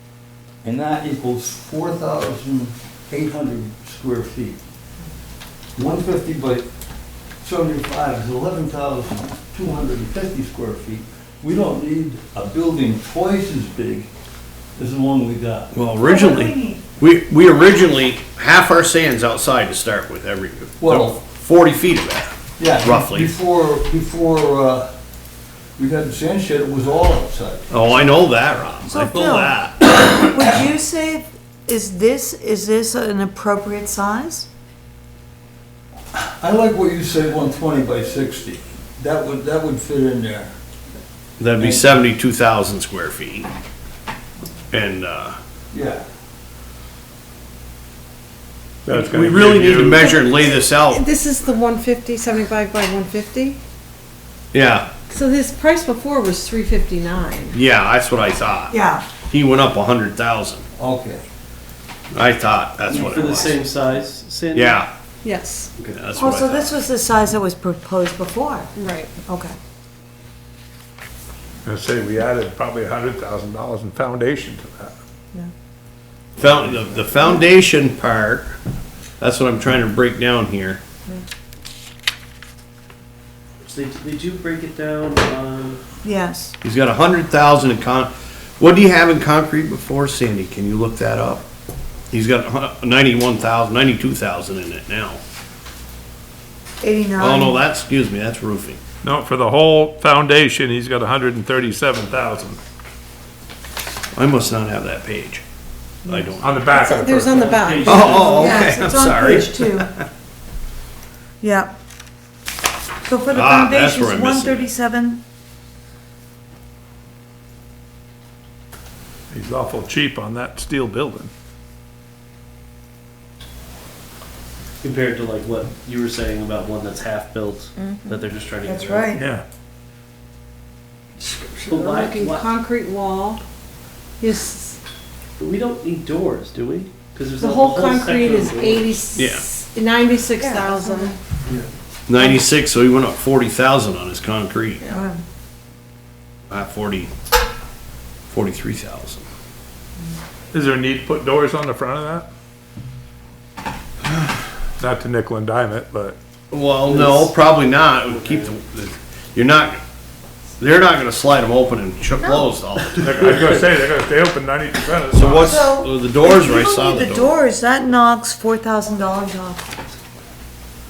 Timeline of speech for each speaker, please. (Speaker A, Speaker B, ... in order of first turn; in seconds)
Speaker A: 0.6-4.6, 5.8-6.7, 7.4-14.1, 14.8-15.7, 20.8-21.2, 22.6-24.9, 25.8-27.7, 36.1-40.5, 41.6-41.9, 45.7-46.0, 60.8-61.2
Speaker B: 15.7-23.3, 27.7-30.2, 41.4-43.5, 44.7-45.4, 48.9-51.1, 54.5-54.9, 57.5-60.6, 62.1-63.6, 64.5-64.9, 65.9-66.7, 76.4-78.6, 79.2-80.8, 86.6-91.4, 92.1-95.2, 97.2-98.8, 104.2-105.4, 106.0-106.6, 107.8-110.0, 113.3-114.7, 139.2-139.4, 142.1-144.8, 146.5-147.1, 148.3-149.2, 156.5-159.8, 160.6-163.4, 165.1-167.4
Speaker C: 16.0-16.8, 28.9-34.5, 58.7-59.1, 66.2-68.7, 69.2-69.5, 86.0-86.5, 96.8-97.6, 106.1-106.8, 108.0-109.9, 111.4-111.8, 113.0-115.2, 127.8-129.2, 140.4-141.2, 144.9-145.2, 165.4-169.6
Speaker D: 48.9-50.0, 71.7-74.9, 99.0-102.6, 106.4-107.5, 108.0-108.3, 119.3-121.3, 129.2-129.4, 150.5-152.3, 154.8-156.2, 163.0-165.6
Speaker E: 50.0-53.6, 55.1-57.6, 65.2-65.7, 68.8-69.1, 106.8-108.1, 131.7-133.4, 134.2-134.8, 137.4-141.2
Speaker F: 62.9-64.8, 65.8-66.0, 76.5-76.8, 83.6-85.8, 107.2-108.7, 124.8-129.2, 131.7-132.6, 135.4-139.2, 156.8-157.4, 158.0-158.5